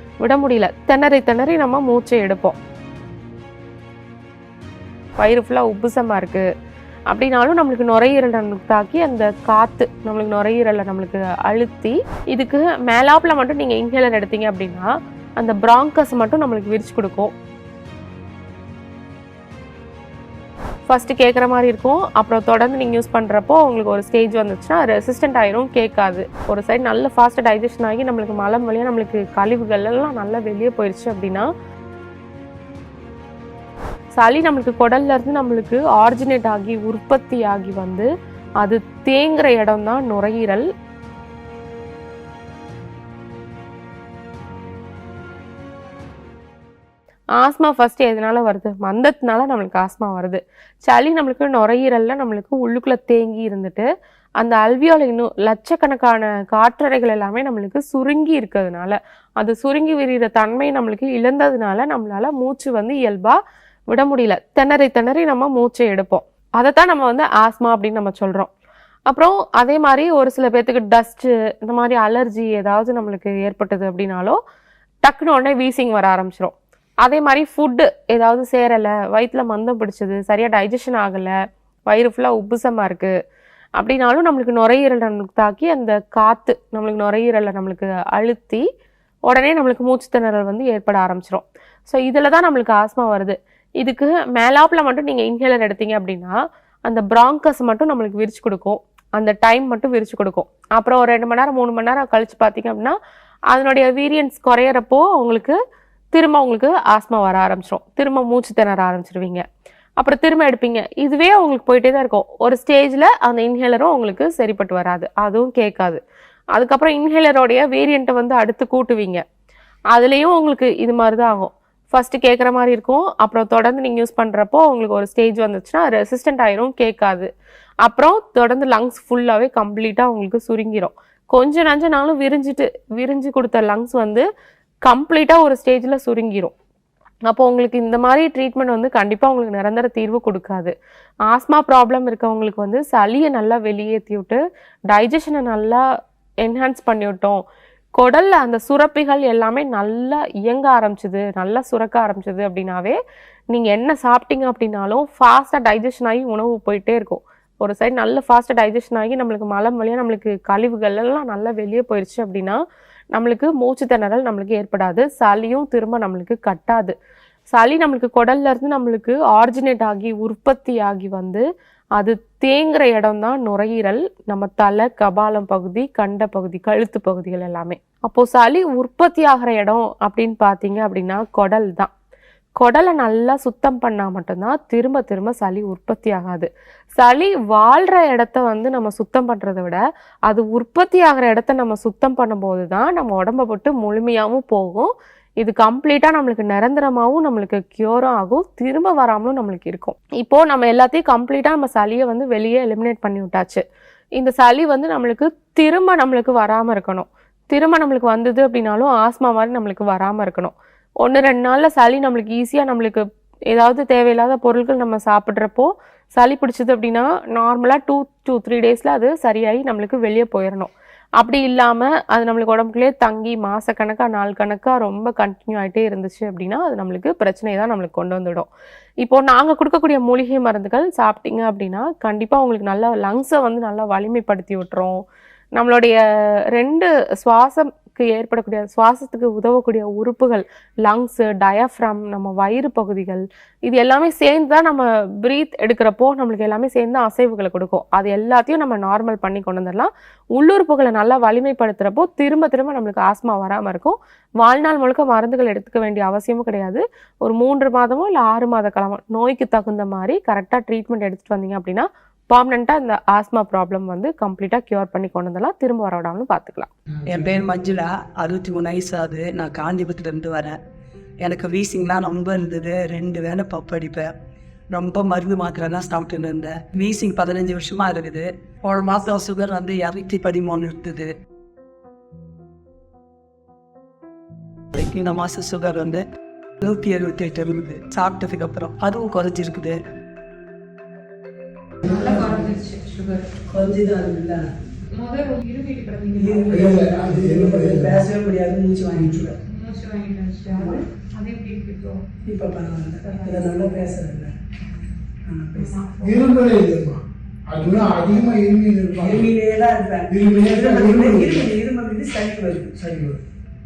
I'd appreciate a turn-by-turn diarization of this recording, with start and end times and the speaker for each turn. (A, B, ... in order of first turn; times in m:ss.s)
0:00.2-0:02.6 A
0:05.2-0:06.5 A
0:07.1-0:17.3 A
0:20.9-0:31.5 A
0:34.2-0:38.1 A
0:38.6-0:40.7 A
0:47.4-0:53.9 A
0:54.4-1:03.4 A
1:03.9-1:08.5 A
1:09.1-1:14.4 A
1:15.0-1:21.4 A
1:21.9-1:23.1 A
1:23.8-1:28.6 A
1:29.3-1:36.4 A
1:36.9-1:43.0 A
1:43.5-1:45.6 A
1:46.1-1:49.4 A
1:50.0-1:56.0 A
1:56.5-1:59.2 A
1:59.9-2:07.3 A
2:07.8-2:14.3 A
2:14.9-2:16.5 A
2:17.3-2:20.7 A
2:21.3-2:25.8 A
2:26.4-2:27.4 A
2:28.0-2:33.0 A
2:33.5-2:42.6 A
2:43.1-2:46.9 A
2:47.5-2:51.4 A
2:52.0-3:01.9 A
3:02.6-3:23.6 A
3:24.2-3:48.5 A
3:49.0-3:55.0 A
3:55.6-3:56.0 A
3:56.5-4:26.7 A
4:27.1-4:30.6 B
4:31.2-4:34.1 B
4:34.7-4:41.2 B
4:44.8-4:46.0 B
4:46.6-4:49.8 B
4:51.8-4:52.5 B
4:51.8-4:53.3 C
4:53.5-4:54.4 B
4:54.9-4:56.8 C
4:56.1-4:59.4 B
4:56.5-4:58.0 D
4:59.5-5:02.0 C
5:00.5-5:00.8 B
5:02.2-5:04.3 B
5:03.0-5:03.7 C
5:05.3-5:05.8 B
5:05.5-5:06.6 C
5:06.0-5:09.3 D
5:09.0-5:12.9 B
5:10.1-5:11.5 D
5:12.8-5:13.2 D